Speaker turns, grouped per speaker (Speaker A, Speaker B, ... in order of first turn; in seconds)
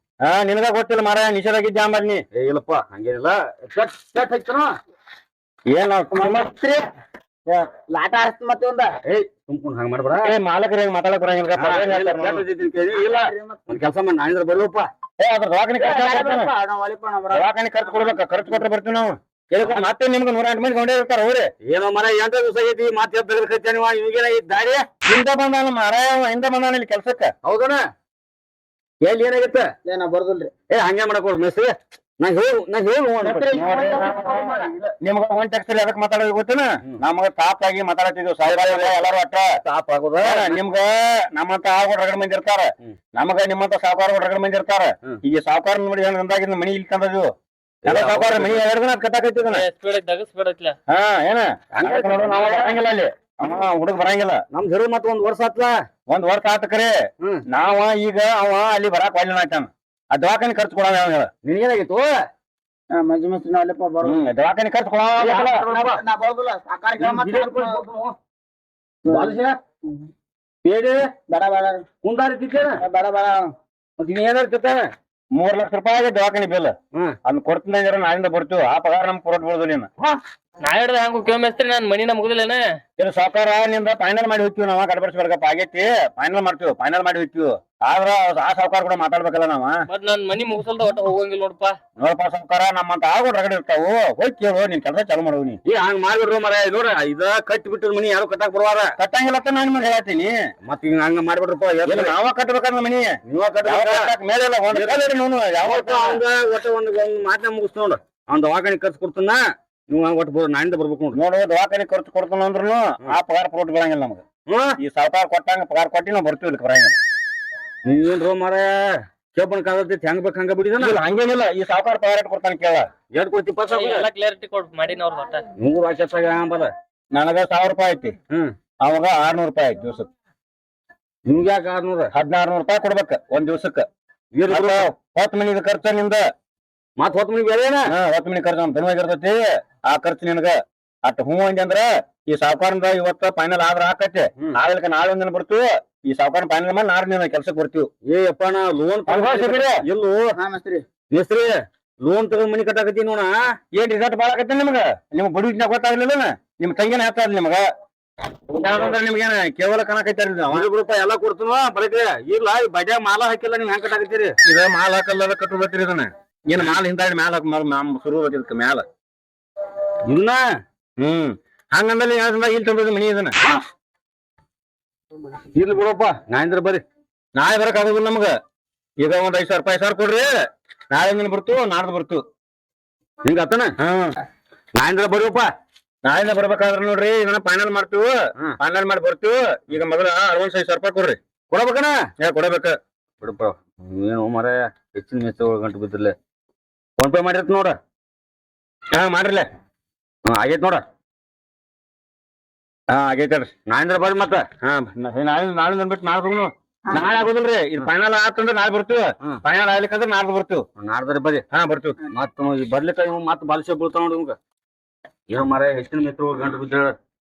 Speaker A: 0.2-2.2, 5.7-6.5, 10.2-12.4, 15.2-16.5, 17.3-21.5, 25.0-27.3, 33.2-39.5, 40.2-47.3, 47.8-49.6, 50.9-54.4, 56.1-56.9, 57.5-61.3, 64.0-66.0, 75.3-76.7, 77.2-79.9, 83.0-89.8, 92.0-95.6, 99.0-100.3, 101.8-106.2, 111.1-114.2, 114.8-117.0, 120.8-122.9, 127.1-128.1, 128.8-130.1, 132.1-133.8, 134.5-136.2, 137.9-147.9, 149.1-149.8, 153.7-157.6, 158.5-160.7, 164.4-168.8, 171.0-173.3, 177.3-178.3, 179.0-180.3, 180.9-182.2, 183.8-184.1, 186.0-191.2, 192.2-192.8, 198.9-199.5, 202.9-203.5, 204.6-210.6, 211.5-212.0
Speaker B: 2.3-4.7, 9.0-10.3, 11.5-14.8, 21.6-24.9, 27.4-27.8, 29.0-29.7, 30.7-34.9, 38.4-39.0, 39.6-40.6, 47.8-48.6, 51.8-52.7, 54.5-55.7, 61.4-62.1, 67.0-68.2, 69.0-69.6, 70.6-71.0, 72.0-72.8, 74.0-74.9, 95.7-98.9, 100.6-102.1, 103.3-104.1, 104.7-105.0, 105.6-111.2, 114.5-114.7, 117.8-118.8, 119.3-121.0, 123.1-124.1, 125.6-126.7, 131.3-132.1, 134.3-134.9, 137.0-137.8, 148.1-150.2, 151.1-153.3, 160.5-164.3, 170.1-170.4, 175.5-176.8, 183.2-183.7, 184.8-185.5, 191.5-192.0, 193.2-196.1, 197.0-197.8, 200.2-200.8, 203.7-204.4, 210.8-211.4, 212.1-214.4, 215.3-216.9
Speaker C: 6.1-6.8, 7.9-8.9, 12.9-13.7, 15.8-17.4, 29.8-30.5, 33.8-34.4, 62.9-64.2, 65.2-67.8, 69.1-69.4, 71.3-71.8, 72.8-73.5, 150.4-150.8
Speaker D: 49.5-50.8, 80.6-82.6, 89.9-91.8, 123.7-125.4